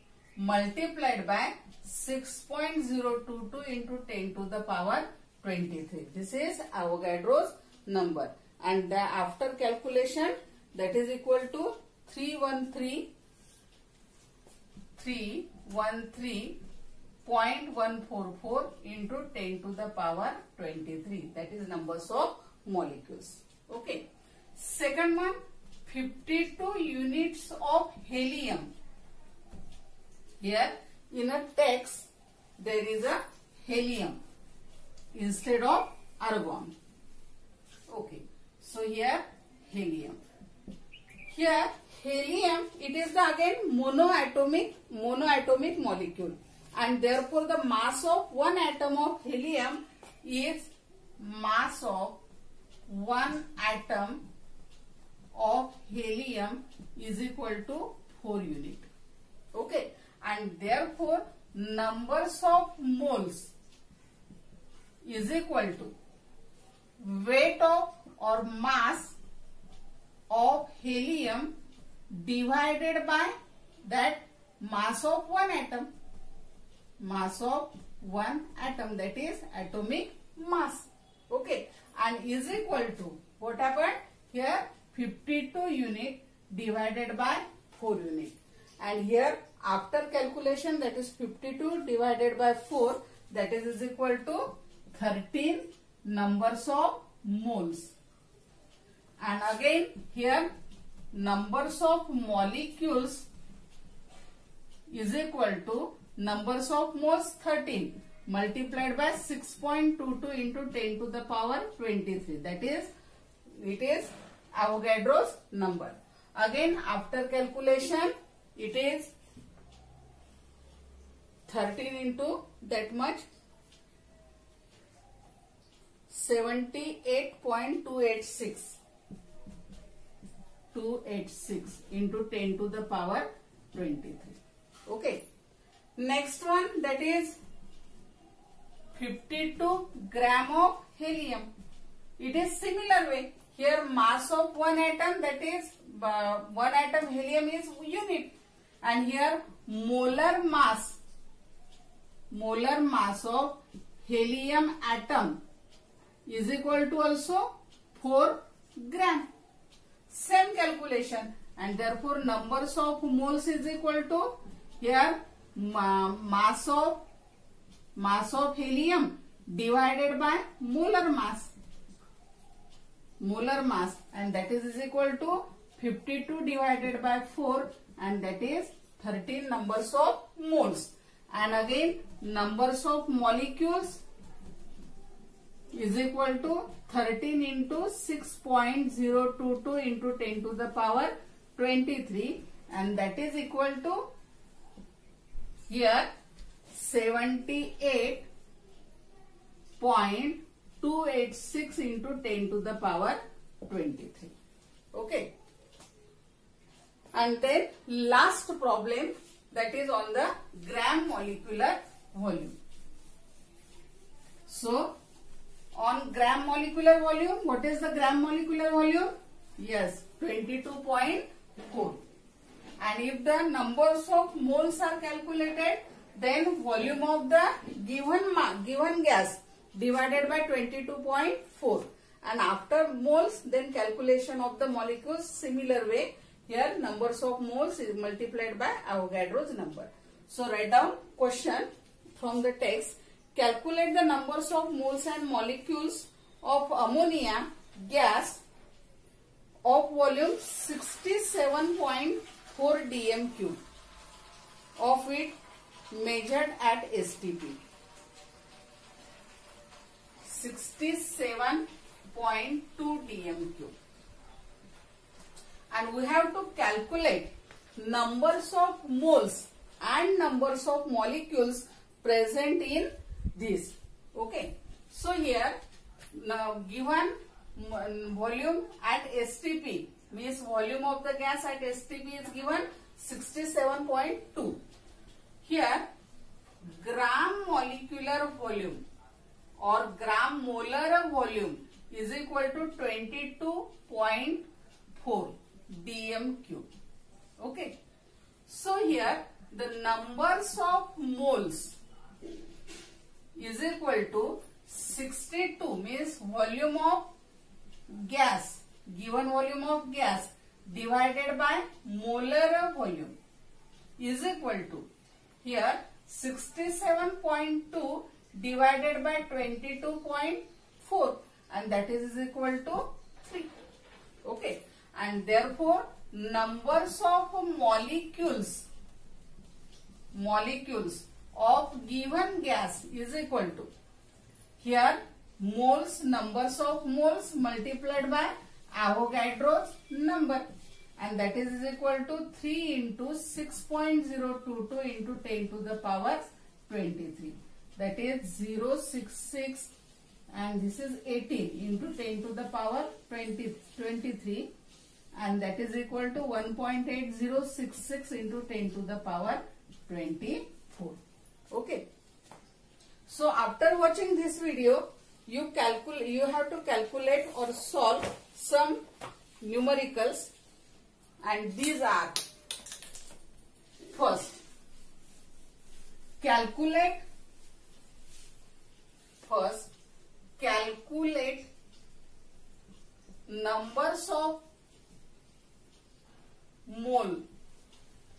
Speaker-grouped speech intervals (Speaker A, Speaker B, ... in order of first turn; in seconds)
Speaker A: 0.4-13.1, 15.0-16.6, 17.2-24.1, 24.6-28.7, 30.4-32.1, 32.6-34.2, 35.1-36.7, 37.9-40.2, 41.3-52.2, 52.9-54.2, 55.4-58.9, 59.5-63.5, 65.0-65.9, 67.0-69.2, 70.3-71.5, 72.1-75.9, 77.0-97.9, 99.2-100.5, 101.1-103.3, 104.9-112.9, 113.5-119.1, 121.5-123.3, 126.1-128.8, 130.7-135.2, 136.0-137.4, 138.9-141.5, 142.2-151.0, 152.3-155.4, 156.3-159.3, 160.1-167.0, 168.0-171.5, 173.2-184.0, 185.7-194.1, 195.7-196.1, 196.7-198.3, 199.8-204.3, 204.9-205.3, 207.1-212.6, 214.5-214.9, 215.8-222.0, 222.8-248.4, 249.6-253.6, 254.8-255.3, 255.9-257.6, 260.2-263.7, 265.7-275.6, 276.1-284.6, 285.4-285.9, 286.6-288.8, 289.6-296.7, 297.4-297.7, 298.5-301.8, 303.4-307.1, 307.9-313.1, 314.0-314.9, 315.4-323.6, 324.2-328.7, 330.1-333.7, 334.6-340.5, 341.0-349.7, 350.3-354.5, 355.1-361.0, 361.5-361.8, 363.1-368.8, 369.4-370.3, 371.2-372.3, 373.9-374.4, 376.2-377.0, 379.2-379.7, 380.4-381.5, 383.3-384.4, 386.7-387.2